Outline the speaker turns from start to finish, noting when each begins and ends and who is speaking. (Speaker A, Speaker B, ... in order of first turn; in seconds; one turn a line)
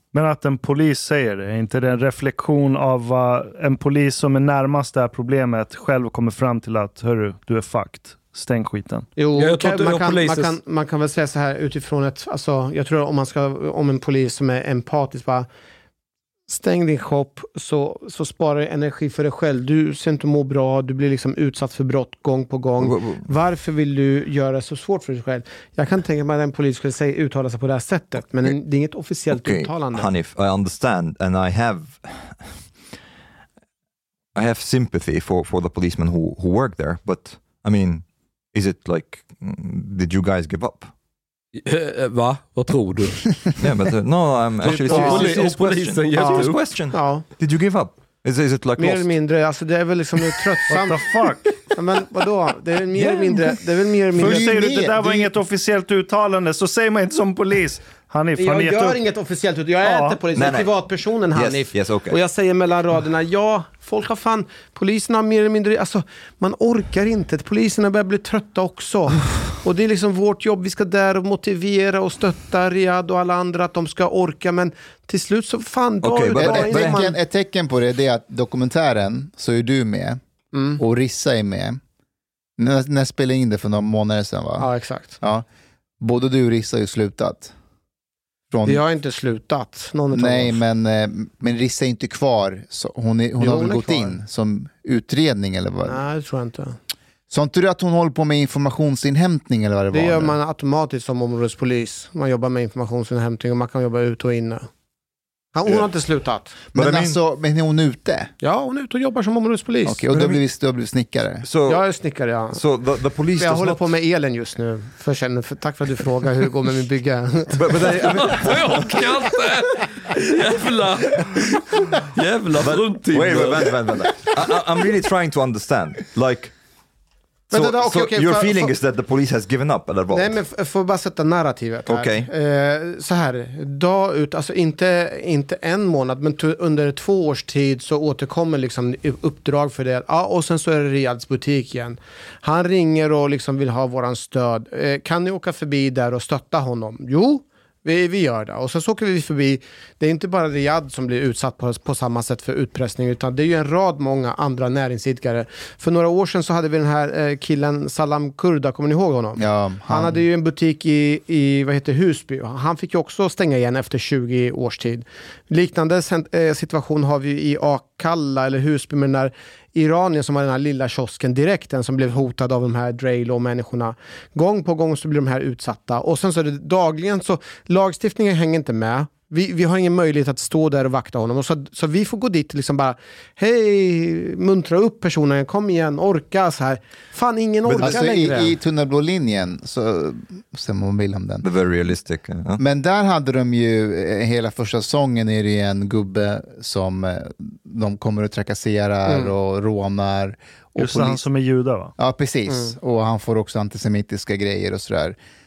Speaker A: 0.1-9.1
Speaker B: 9.2-15.5
Speaker C: 9.4-10.6
Speaker B: 16.5-30.1
Speaker D: 22.8-23.3
Speaker D: 29.3-32.6
Speaker D: 34.4-40.9
Speaker C: 41.6-43.2
Speaker D: 43.6-49.1
Speaker C: 44.6-46.6
Speaker B: 44.8-45.4
Speaker B: 46.2-47.3
Speaker B: 48.8-51.1
Speaker A: 50.7-51.5
Speaker B: 51.7-54.8
Speaker E: 54.2-55.3
Speaker A: 54.2-59.0
Speaker B: 58.4-77.2
Speaker A: 59.8-60.2
Speaker D: 60.4-60.7
Speaker D: 61.3-62.2
Speaker D: 76.0-77.0
Speaker E: 76.4-80.2
Speaker B: 80.5-80.8
Speaker E: 80.8-81.8
Speaker E: 82.6-84.7
Speaker B: 84.6-85.2
Speaker E: 85.2-85.5
Speaker E: 86.0-87.5
Speaker E: 88.5-88.8
Speaker B: 88.7-90.6
Speaker E: 90.1-96.0
Speaker B: 93.4-94.2
Speaker B: 95.8-96.8
Speaker E: 97.3-100.4
Speaker B: 99.9-104.7
Speaker B: 105.5-107.0
Speaker D: 106.7-107.1
Speaker E: 106.8-108.3
Speaker B: 108.4-110.0
Speaker E: 109.8-111.5
Speaker D: 110.1-110.4
Speaker D: 111.4-111.8
Speaker B: 111.7-112.6
Speaker D: 112.5-113.9
Speaker B: 113.4-118.3
Speaker D: 117.6-118.9
Speaker C: 118.2-121.3
Speaker C: 122.1-123.7
Speaker D: 122.6-126.5
Speaker B: 127.5-128.7
Speaker D: 127.5-130.4
Speaker B: 130.1-188.5
Speaker D: 131.9-132.3
Speaker E: 159.4-160.2
Speaker D: 187.7-188.0
Speaker E: 187.7-191.4
Speaker D: 191.4-192.6
Speaker E: 192.6-201.2
Speaker B: 199.1-199.3
Speaker A: 200.8-201.9
Speaker E: 202.0-205.2
Speaker B: 202.5-202.7